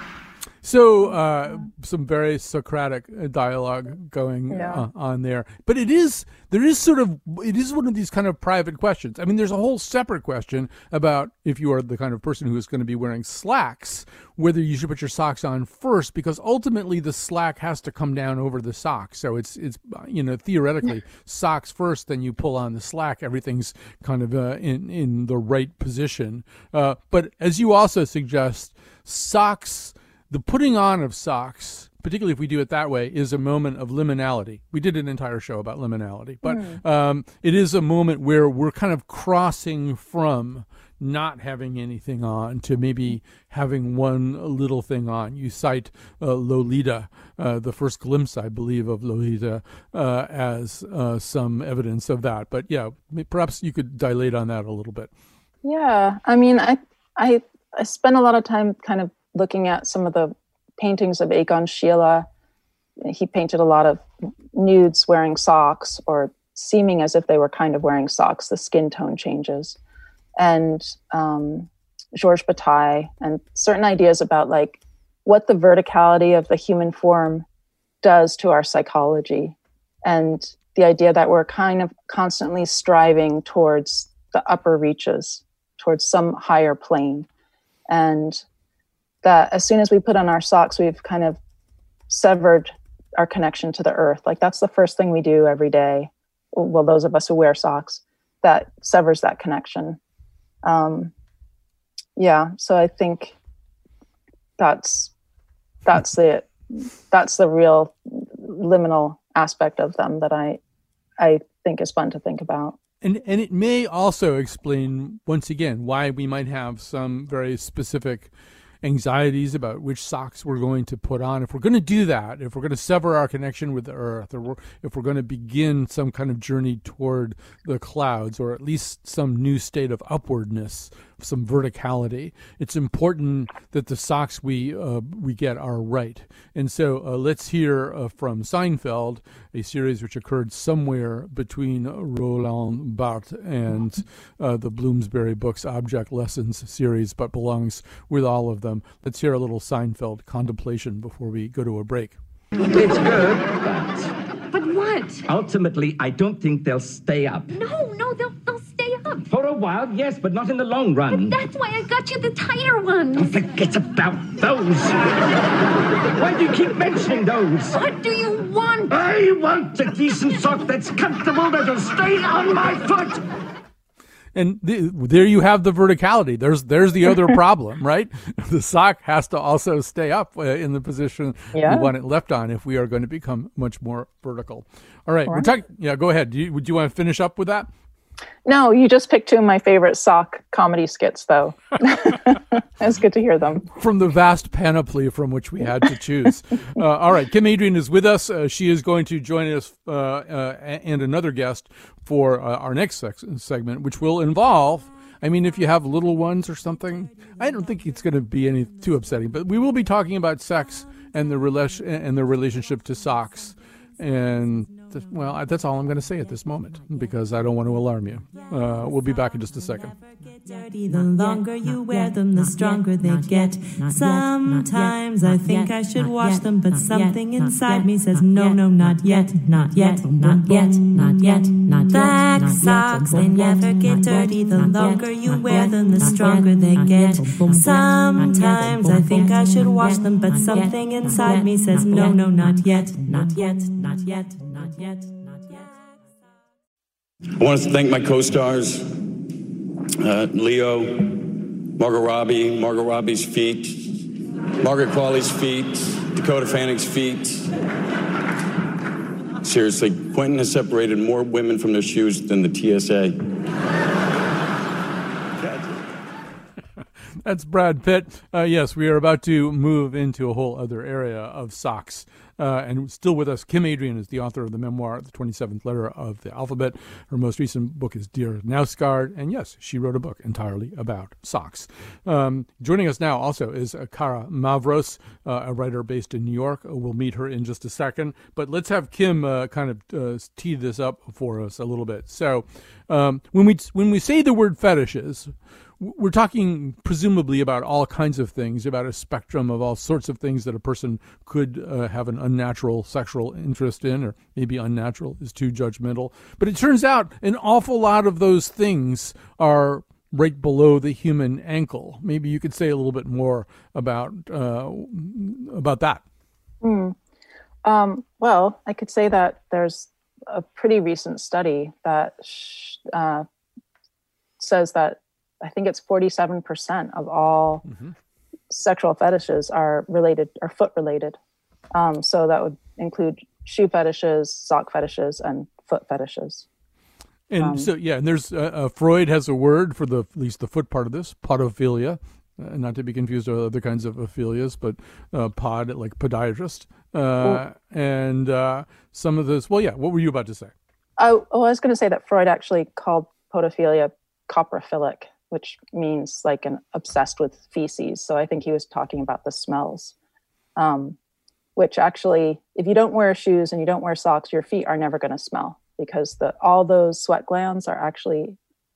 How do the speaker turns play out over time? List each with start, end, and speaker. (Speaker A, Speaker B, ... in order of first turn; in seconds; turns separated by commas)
Speaker A: 0.6-55.1, Speaker B: 4.5-4.8, Speaker B: 36.5-36.8, Speaker B: 55.6-62.3, Speaker B: 63.0-69.8, Speaker B: 70.4-77.5, Speaker B: 78.0-87.3, Speaker B: 87.9-88.4, Speaker B: 89.2-91.4, Speaker B: 92.1-100.0, Speaker B: 100.6-101.1, Speaker B: 102.2-103.4, Speaker B: 104.6-105.1, Speaker B: 105.9-110.6, Speaker B: 111.2-112.8, Speaker A: 113.0-118.3, Speaker A: 118.8-152.2, Speaker C: 152.8-154.0, Speaker D: 154.5-155.3, Speaker C: 155.3-157.4, Speaker D: 157.5-159.3, Speaker C: 159.3-161.3, Speaker D: 161.1-163.4, Speaker C: 163.2-164.9, Speaker C: 166.2-167.7, Speaker D: 167.7-169.1, Speaker C: 170.5-173.2, Speaker A: 174.3-187.7, Speaker B: 181.5-181.9, Speaker B: 188.4-193.7, Speaker A: 193.7-220.0, Speaker E: 220.4-244.8, Speaker F: 247.4-249.0, Speaker F: 250.0-254.1, Speaker F: 254.6-257.5, Speaker F: 259.4-263.3, Speaker A: 267.2-316.0, Speaker B: 316.6-317.0, Speaker B: 317.6-323.3, Speaker B: 324.4-327.7, Speaker A: 327.7-327.9, Speaker B: 328.5-331.2, Speaker B: 331.7-336.5, Speaker A: 337.3-350.5, Speaker B: 337.4-337.7, Speaker B: 351.0-359.9, Speaker B: 360.6-361.0, Speaker B: 361.6-368.4